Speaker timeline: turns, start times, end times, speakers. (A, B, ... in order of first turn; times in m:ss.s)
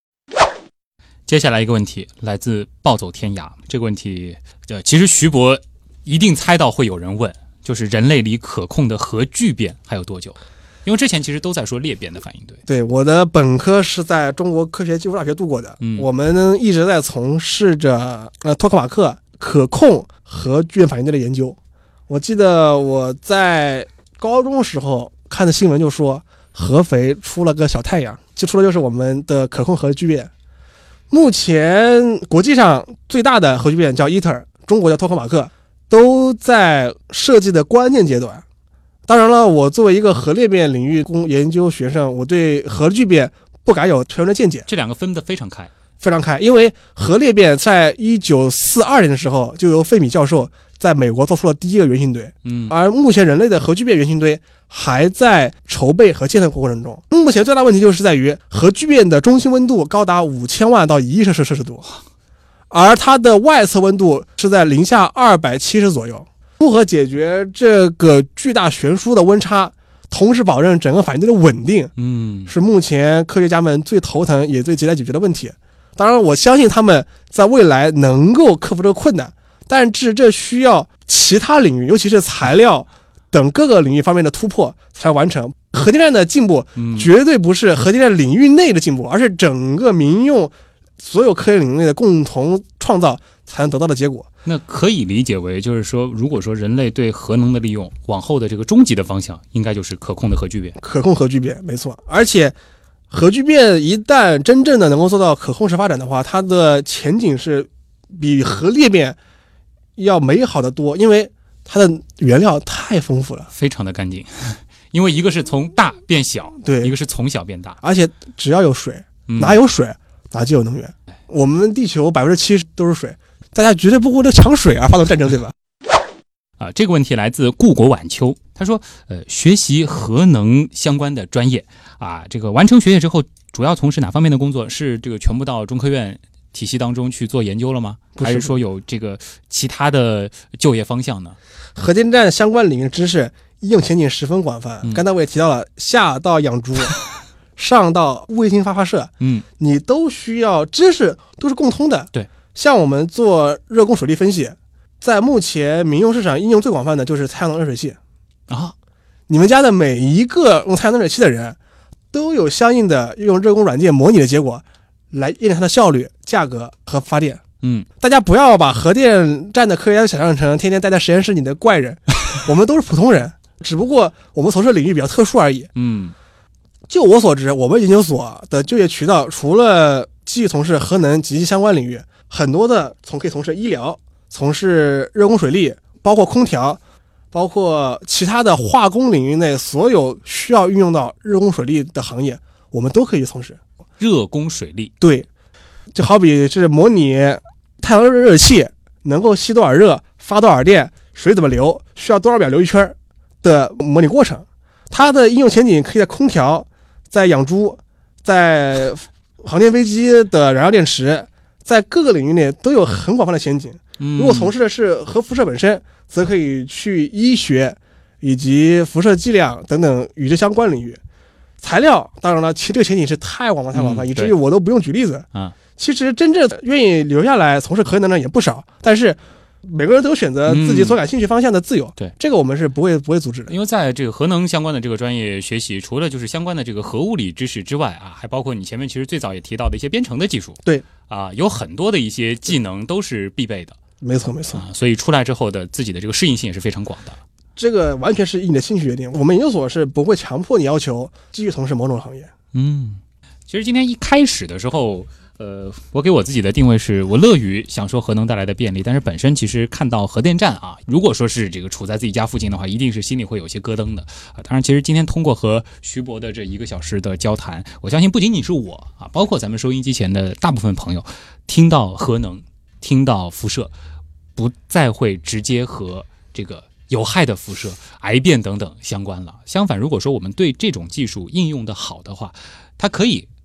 0:01.3-0:12.6 A
0:12.7-0:21.6 B
0:15.8-0:16.1 A
0:22.1-0:30.3 B
0:31.1-0:38.4 B
0:39.1-0:44.7 B
0:44.7-0:45.7 A
0:46.0-1:01.8 B
0:52.4-0:52.8 A
1:02.7-1:11.9 B
1:12.0-1:12.5 A
1:12.5-1:34.3 B
1:26.8-1:27.1 A
1:34.4-1:40.8 A
1:40.8-1:42.6 B
1:43.1-1:49.2 B
1:50.0-1:53.5 B
1:53.5-1:57.8 A
1:56.6-1:56.9 B
1:57.8-2:05.5 B
1:59.3-1:59.6 A
2:06.6-2:21.4 A
2:18.2-2:18.6 B
2:21.8-2:27.0 B
2:27.6-2:38.0 B
2:38.5-2:38.8 A
2:39.3-2:41.6 B
2:42.1-2:47.4 B
2:48.0-2:55.7 B
2:55.8-2:56.2 A
2:56.9-3:06.8 B
3:07.3-3:13.6 B
3:14.0-3:14.9 A
3:15.0-3:15.3 B
3:15.9-3:41.0 B
3:34.0-3:34.5 A
3:41.6-3:53.5 B
3:43.7-3:44.4 A
3:50.5-3:51.0 A
3:53.5-4:03.8 A
4:04.0-4:04.6 B
4:04.5-4:07.2 A
4:07.6-4:12.3 B
4:12.5-4:33.7 A
4:34.4-4:43.3 A